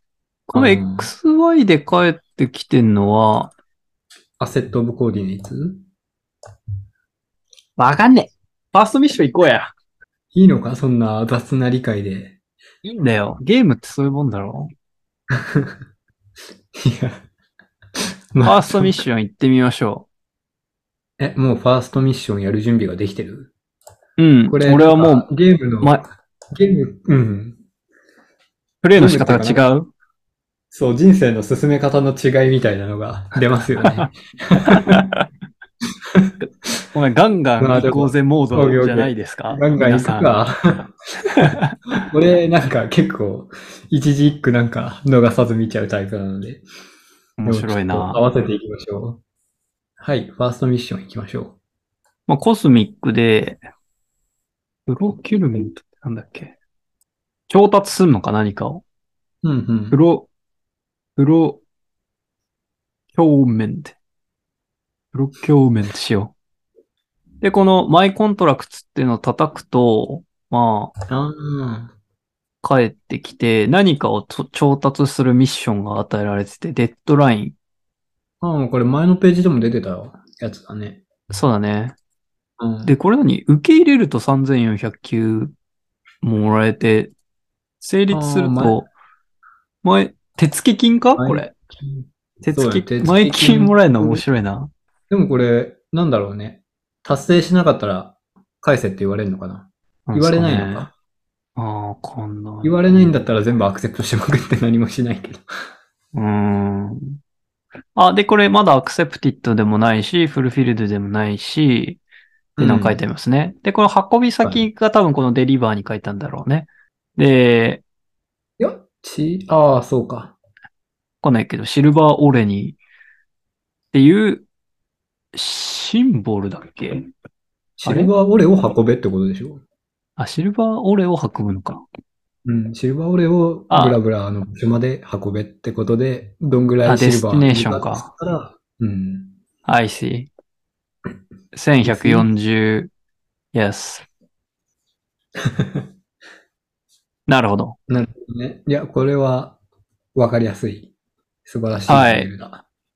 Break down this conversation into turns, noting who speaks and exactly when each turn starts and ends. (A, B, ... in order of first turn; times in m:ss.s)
0:00.5-0:03.5 A
0:00.5-0:01.1 B
0:04.4-0:05.8 B
0:07.8-0:09.7 A
0:10.3-0:12.4 B
0:12.8-0:14.7 A
0:15.3-0:15.8 B
0:16.7-0:17.2 B
0:18.3-0:18.9 B
0:18.4-0:20.1 A
0:21.2-0:23.5 B
0:24.2-0:25.3 A
0:24.5-0:26.0 B
0:26.5-0:27.6 B
0:28.8-0:29.9 A
0:29.0-0:29.6 B
0:30.7-0:35.0 B
0:34.7-0:35.2 A
0:36.9-0:40.3 A
0:37.6-0:40.8 B
0:41.4-0:41.7 A
0:42.0-0:46.6 B
0:47.4-0:48.2 A
0:47.4-0:49.2 B
0:50.0-0:51.6 B
0:52.3-0:53.6 A
0:54.9-0:56.5 A
0:57.5-0:58.8 A
0:59.4-1:00.0 B
0:59.9-1:00.3 A
1:01.2-1:01.6 A
1:03.1-1:04.0 A
1:05.1-1:06.3 A
1:07.4-1:10.9 A
1:11.1-1:11.9 B
1:12.6-1:17.6 A
1:18.4-1:21.0 B
1:21.3-1:22.0 A
1:22.6-1:22.9 B
1:22.8-1:25.5 A
1:26.2-1:27.1 A
1:27.8-1:28.9 A
1:28.1-1:28.8 B
1:29.8-1:31.5 A
1:31.2-1:34.2 B
1:32.4-1:34.7 A
1:35.1-1:40.9 B
1:40.1-1:40.9 A
1:41.6-1:42.7 A
1:42.6-1:45.4 B
1:46.1-1:47.2 A
1:47.9-1:52.0 A
1:52.6-1:53.0 B
1:52.6-1:57.8 A
1:58.6-2:00.3 B
2:01.2-2:02.8 A
2:03.9-2:04.4 A
2:05.3-2:07.0 A
2:07.8-2:09.6 B
2:07.8-2:08.1 A
2:10.2-2:11.8 A
2:12.4-2:19.3 B
2:13.7-2:14.0 A
2:16.8-2:18.1 A
2:19.6-2:20.3 A
2:21.5-2:22.9 A
2:21.8-2:22.3 B
2:23.5-2:24.0 A
2:25.4-2:25.8 B
2:27.3-2:27.8 A
2:27.9-2:29.6 B
2:30.1-2:30.9 B
2:31.4-2:32.6 B
2:31.9-2:32.3 A